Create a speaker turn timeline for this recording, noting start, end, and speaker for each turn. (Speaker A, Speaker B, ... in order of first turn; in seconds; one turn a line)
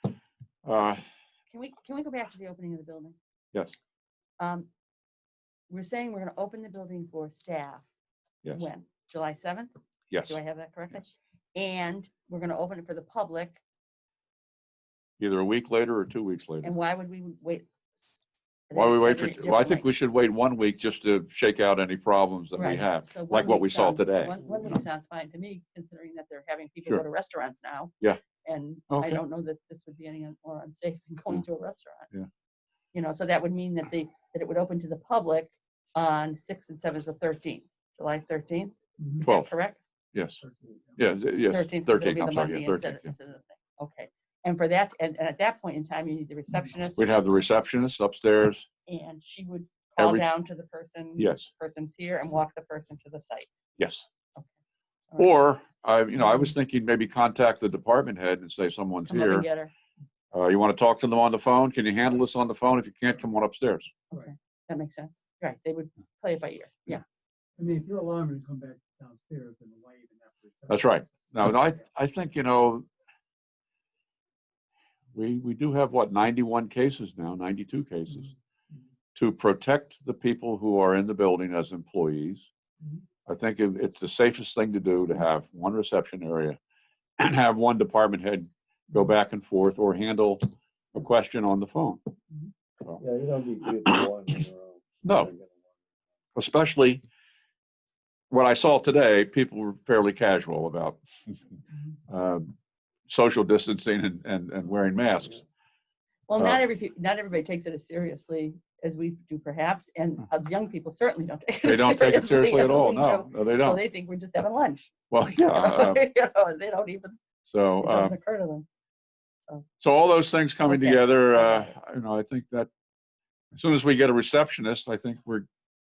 Speaker A: 0.7-1.0
Speaker B: 1.5-3.1
Speaker B: 4.4-4.7
Speaker B: 5.7-7.8
Speaker B: 8.5-9.7
Speaker A: 10.1-10.4
Speaker B: 10.3-13.6
Speaker A: 15.2-16.7
Speaker B: 16.6-17.7
Speaker B: 18.7-20.1
Speaker A: 18.7-24.3
Speaker B: 22.6-27.9
Speaker B: 28.4-32.1
Speaker A: 28.9-29.2
Speaker B: 32.9-39.8
Speaker C: 39.0-39.3
Speaker A: 39.2-39.5
Speaker A: 40.1-40.4
Speaker C: 40.4-41.0
Speaker A: 41.0-43.1
Speaker B: 41.5-47.2
Speaker A: 47.0-48.7
Speaker B: 48.9-53.5
Speaker A: 50.0-50.3
Speaker A: 51.2-51.5
Speaker A: 53.8-54.1
Speaker A: 55.2-59.5
Speaker B: 59.1-59.7
Speaker A: 60.3-63.9
Speaker B: 64.1-67.0
Speaker C: 67.6-71.8
Speaker A: 70.7-72.9
Speaker A: 75.1-78.3
Speaker C: 78.1-78.8
Speaker A: 79.2-82.5
Speaker A: 83.3-86.6
Speaker A: 87.2-92.0
Speaker D: 93.0-95.8
Speaker A: 95.0-95.3
Speaker A: 96.3-97.0
Speaker A: 98.3-101.0
Speaker C: 101.7-102.0
Speaker A: 102.1-102.5
Speaker A: 103.1-105.4
Speaker B: 106.3-117.2
Speaker A: 111.7-113.8
Speaker A: 115.1-116.0
Speaker A: 117.5-118.2
Speaker B: 117.8-118.7
Speaker A: 119.8-122.7
Speaker B: 120.7-121.7
Speaker A: 123.5-125.5